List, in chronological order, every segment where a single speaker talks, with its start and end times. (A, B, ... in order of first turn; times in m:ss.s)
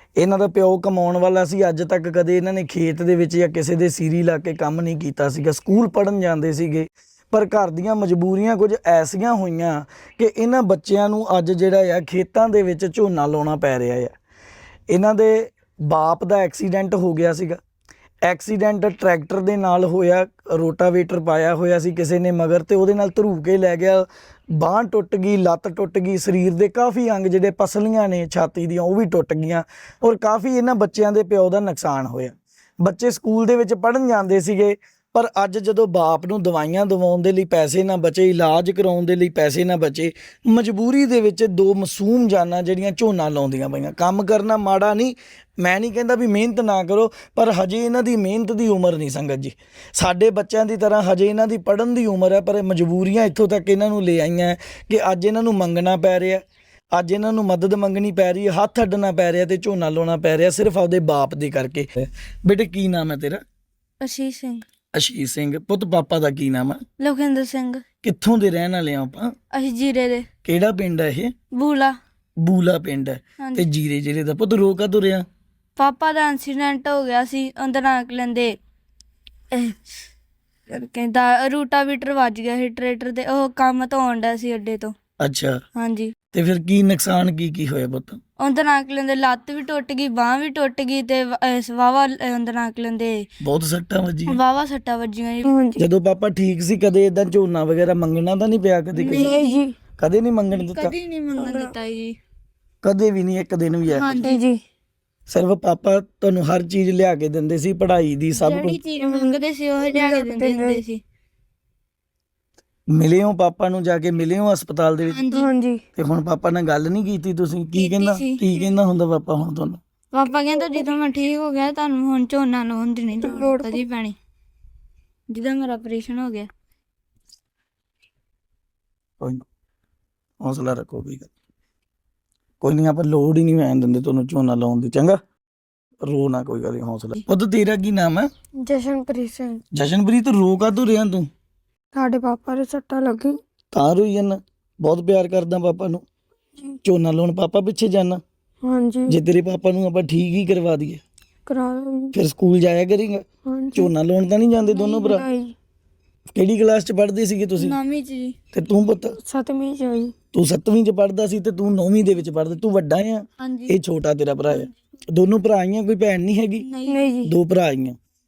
0:00.2-0:14.1 A
0:14.9-0:17.6 A
0:18.2-1:03.4 A
1:04.0-1:04.7 B
1:04.9-1:06.8 A
1:07.0-1:07.8 B
1:08.0-1:09.3 A
1:09.5-1:10.3 B
1:10.4-1:11.3 A
1:11.5-1:11.9 B
1:12.4-1:15.3 A
1:13.4-1:13.7 B
1:15.8-1:18.6 B
1:19.5-1:19.8 B
1:20.7-1:24.9 B
1:25.2-1:25.6 A
1:25.8-1:26.1 B
1:26.3-1:28.2 A
1:28.4-1:33.2 B
1:33.4-1:34.4 A
1:34.3-1:35.5 B
1:35.4-1:35.8 C
1:35.8-1:39.3 A
1:39.0-1:39.6 B
1:39.1-1:39.7 C
1:40.0-1:40.9 A
1:40.5-1:42.2 B
1:41.4-1:41.7 C
1:42.8-1:44.1 A
1:43.9-1:44.4 B
1:44.2-1:44.6 C
1:45.3-1:48.8 A
1:48.4-1:51.0 B
1:48.5-1:50.8 C
1:52.9-1:55.2 A
1:55.1-1:55.5 B
1:55.3-1:55.8 C
1:56.0-1:59.8 A
1:57.8-1:58.4 B
2:00.1-2:04.2 B
2:03.2-2:03.8 C
2:05.3-2:06.5 B
2:10.4-2:11.3 A
2:12.6-2:15.2 A
2:16.1-2:18.3 A
2:18.6-2:19.6 C
2:19.7-2:21.3 A
2:21.9-2:23.4 C
2:23.7-2:26.0 A
2:26.8-2:28.2 A
2:28.6-2:29.2 C
2:29.1-2:31.0 A
2:31.5-2:32.2 C
2:32.1-2:33.2 A
2:33.5-2:33.9 C
2:33.8-2:35.2 A
2:34.8-2:35.2 B
2:34.8-2:35.5 C
2:36.3-2:37.8 A
2:37.6-2:38.4 B
2:38.5-2:39.2 A
2:39.2-2:40.1 C
2:40.3-2:46.7 A
2:43.4-2:43.8 B
2:46.6-2:47.1 B
2:46.9-2:47.3 C
2:47.2-2:48.0 A